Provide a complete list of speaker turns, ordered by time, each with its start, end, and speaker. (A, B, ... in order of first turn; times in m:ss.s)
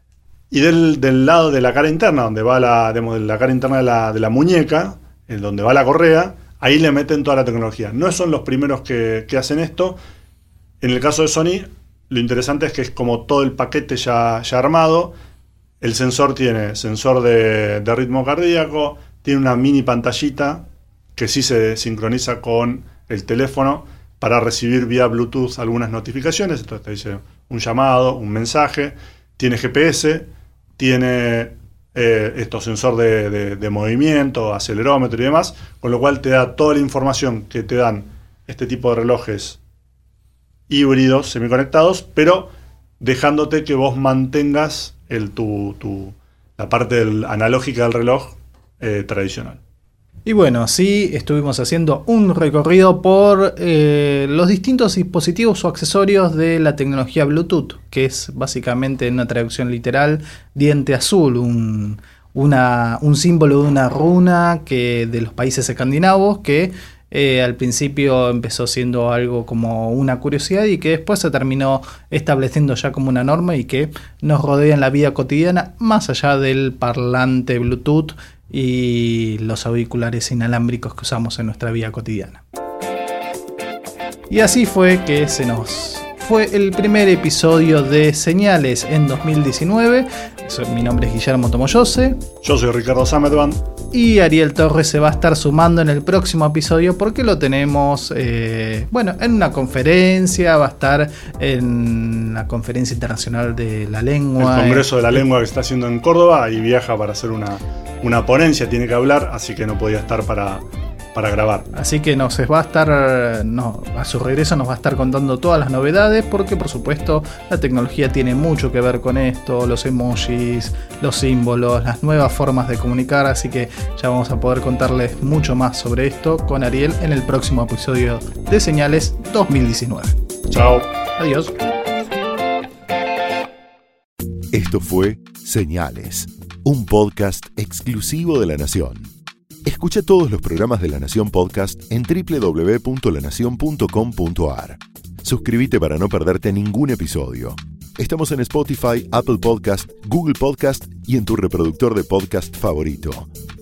0:00.5-0:10.0 A
0:10.8-0:15.1 A
0:15.8-0:39.6 A
0:40.7-0:49.6 A
0:50.2-1:22.4 B
1:24.3-1:32.2 B
1:32.4-1:33.6 A
1:33.9-1:45.2 B
1:44.4-1:51.7 A
1:51.7-2:10.2 B
2:10.5-2:10.8 A
2:11.2-2:11.5 B
2:14.5-2:19.1 C
2:19.6-2:33.3 C